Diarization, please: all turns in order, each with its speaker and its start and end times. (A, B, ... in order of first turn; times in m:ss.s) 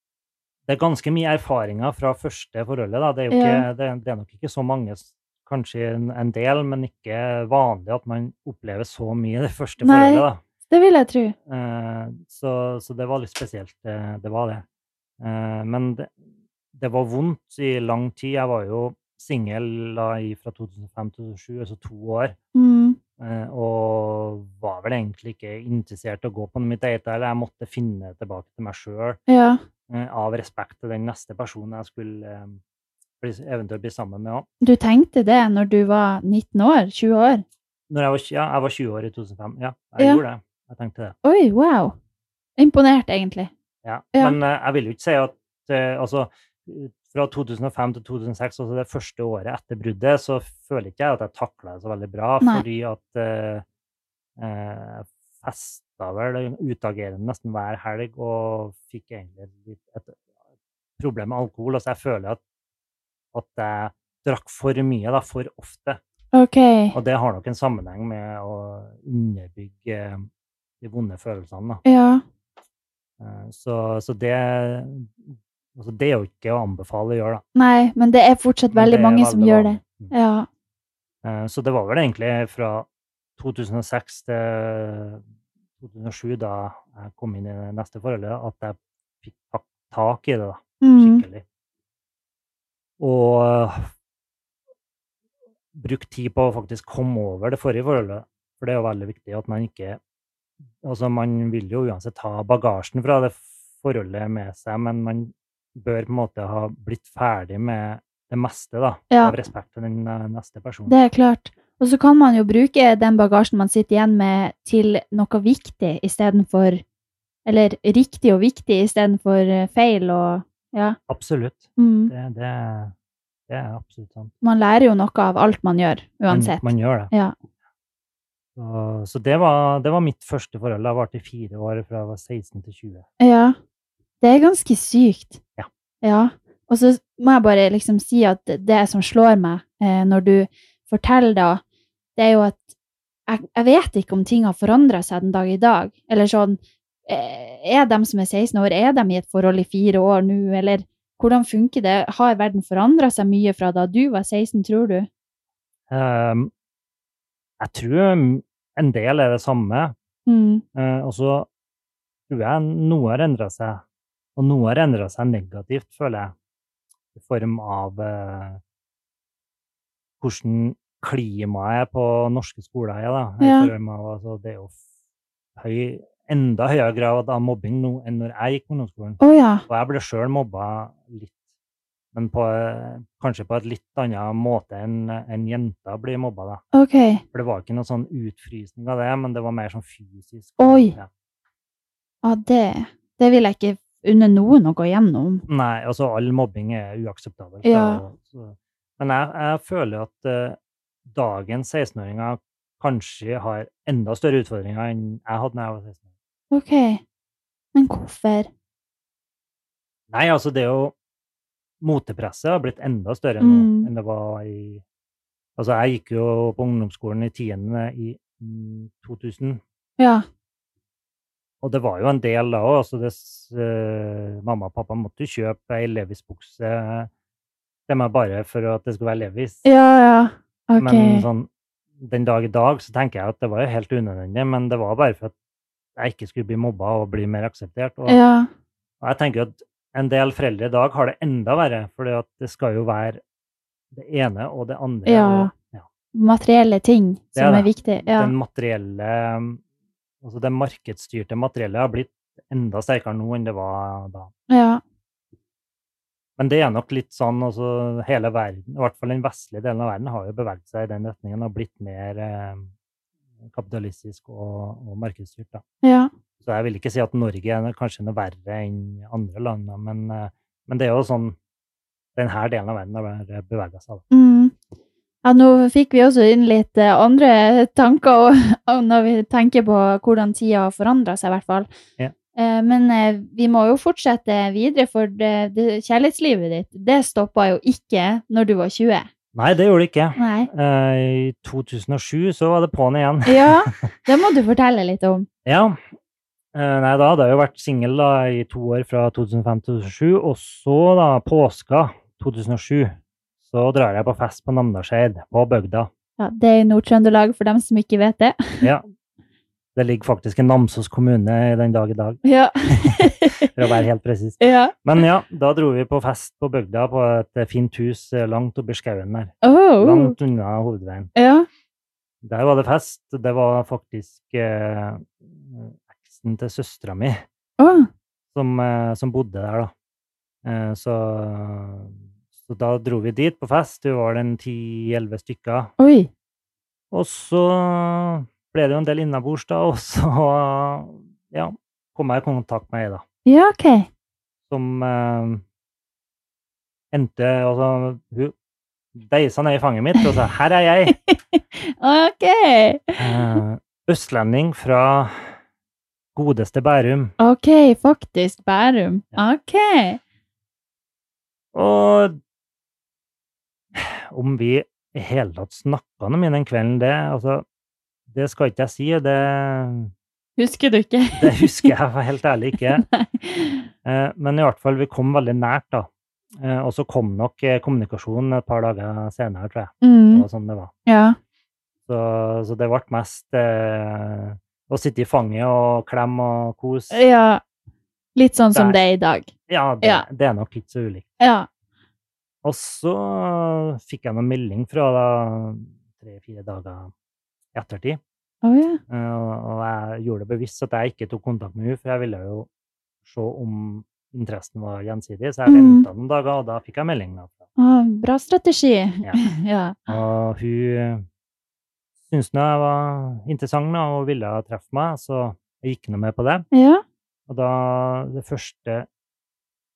0:00.7-0:10.4 A
0:03.3-0:03.6 B
0:09.8-0:11.3 B
0:11.5-0:14.6 A
0:15.2-0:16.1 A
0:16.7-0:22.4 A
0:22.5-0:23.0 B
0:23.2-0:29.2 A
0:29.3-0:29.6 B
0:29.9-0:32.6 A
0:33.2-0:34.5 A
0:34.6-0:37.4 B
0:37.9-0:41.2 A
0:41.2-0:41.9 B
0:42.6-0:43.5 B
0:43.8-0:53.6 A
0:54.4-1:00.2 A
1:01.0-1:02.4 A
1:03.3-1:06.0 A
1:06.3-1:07.0 B
1:06.9-1:10.3 A
1:10.8-1:11.8 A
1:11.8-1:12.2 B
1:13.2-1:17.4 A
1:17.5-1:20.5 B
1:18.7-1:20.1 A
1:21.2-1:25.2 A
1:25.8-1:31.4 A
1:30.8-1:31.2 B
1:33.0-1:33.9 A
1:35.7-1:40.0 A
1:40.8-1:50.9 A
1:49.1-1:49.4 B
1:50.9-1:56.8 B
1:57.4-2:01.0 B
2:01.1-2:02.9 A
2:01.8-2:02.1 B
2:03.5-2:04.3 A
2:04.4-2:07.3 B
2:06.3-2:07.1 A
2:08.6-2:13.0 A
2:13.2-2:13.6 B
2:14.2-2:15.4 B
2:16.0-2:21.6 B
2:22.2-2:22.7 B
2:23.3-2:35.1 B
2:35.9-2:36.5 A
2:37.6-2:39.9 A
2:40.2-2:40.6 B
2:40.7-2:41.5 A
2:42.3-2:43.8 A
2:44.4-2:46.3 A
2:47.1-2:48.6 A
2:50.2-2:54.8 A
2:53.4-2:53.7 B
2:55.6-3:01.4 A
2:59.2-2:59.6 B
3:02.1-3:06.6 A
3:06.7-3:07.2 B
3:07.3-3:11.1 A
3:10.6-3:11.0 B
3:12.2-3:15.4 B
3:15.5-3:26.0 A
3:17.6-3:18.0 B
3:26.5-3:27.0 B
3:27.7-3:28.5 B
3:30.1-3:30.9 A
3:31.8-3:34.8 A
3:33.4-3:33.9 B
3:35.6-3:39.6 A
3:40.0-3:40.2 B
3:41.6-3:47.1 A
3:47.9-3:49.6 A
3:49.6-3:51.2 B
3:50.8-3:55.3 A
3:56.0-3:58.2 A
3:58.0-3:58.5 B
3:59.0-4:03.2 A
4:03.9-4:05.9 A
4:05.0-4:05.5 B
4:06.1-4:08.3 B
4:07.4-4:09.6 A
4:10.2-4:14.3 A
4:14.5-4:14.8 B
4:16.4-4:22.7 A
4:23.4-4:25.6 A
4:25.8-4:26.1 B
4:26.4-4:31.4 A
4:32.2-4:34.0 A
4:34.1-4:34.6 B
4:35.2-4:41.7 B
4:42.3-4:49.1 B
4:49.3-4:53.9 A
4:50.2-4:50.5 B
4:53.2-4:55.3 B
4:55.4-4:55.8 A
4:56.5-5:05.9 A
5:06.2-5:08.7 B
5:09.7-5:21.1 A
5:12.2-5:13.5 B
5:14.4-5:14.8 B
5:19.4-5:20.2 B
5:21.2-5:21.5 B
5:22.2-5:27.2 A
5:27.6-5:27.9 B
5:28.3-5:29.7 A
5:30.4-5:35.7 A
5:35.8-5:36.1 B
5:36.9-5:43.0 A
5:43.2-5:43.9 B
5:44.5-5:45.4 A
5:46.9-5:48.3 A
5:48.9-5:51.0 A
5:50.9-5:53.4 B
5:53.0-5:55.3 A
5:56.1-5:57.1 A
5:57.2-6:00.0 B
6:01.5-6:02.2 A
6:03.7-6:07.4 A
6:08.1-6:09.9 A
6:10.4-6:11.7 B
6:11.1-6:12.8 A
6:12.8-6:13.6 B
6:13.8-6:20.7 A
6:19.8-6:20.2 B
6:20.8-6:21.2 B
6:21.9-6:27.0 A
6:26.9-6:27.4 B
6:28.2-6:30.0 B
6:29.5-6:31.1 A
6:31.2-6:31.5 B
6:32.4-6:36.9 A
6:37.5-6:38.0 A
6:38.4-6:38.8 B
6:38.9-6:42.5 A
6:43.0-6:47.4 A
6:45.4-6:45.9 B
6:47.6-6:49.9 B
6:49.9-6:51.0 A
6:52.1-6:56.4 A
6:56.5-6:56.8 B
6:57.3-6:58.9 A